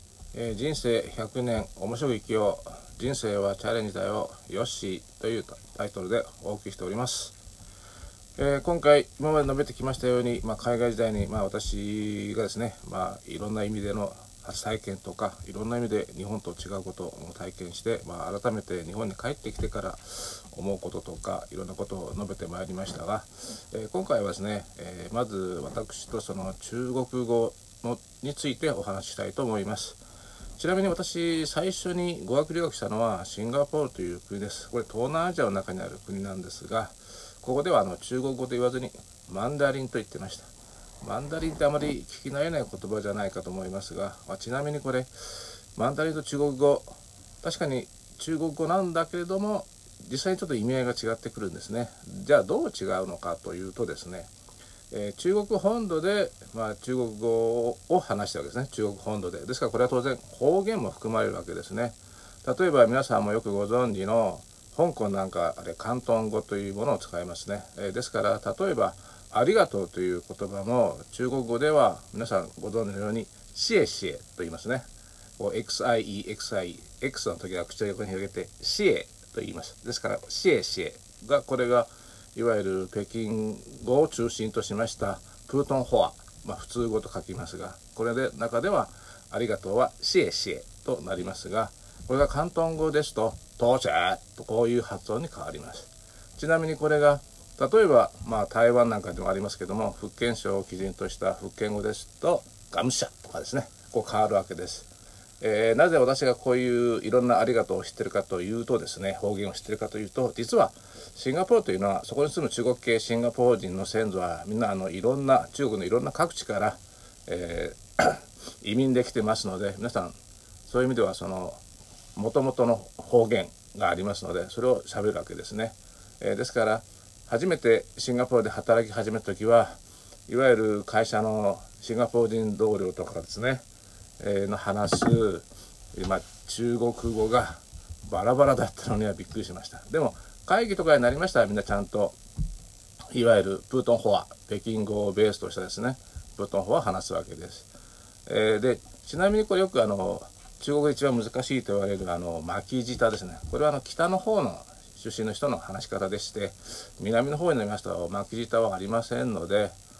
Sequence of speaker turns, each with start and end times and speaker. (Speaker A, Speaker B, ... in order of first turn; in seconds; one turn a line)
Speaker A: 0.3-7.3
Speaker A: 8.4-30.0
Speaker A: 30.6-40.5
Speaker A: 41.0-45.1
Speaker A: 45.8-46.9
Speaker A: 47.4-54.3
Speaker A: 54.9-74.9
Speaker A: 75.4-104.9
Speaker A: 105.4-120.2
Speaker A: 120.7-121.6
Speaker A: 122.2-133.7
Speaker A: 134.2-142.2
Speaker A: 143.1-147.7
Speaker A: 148.3-159.8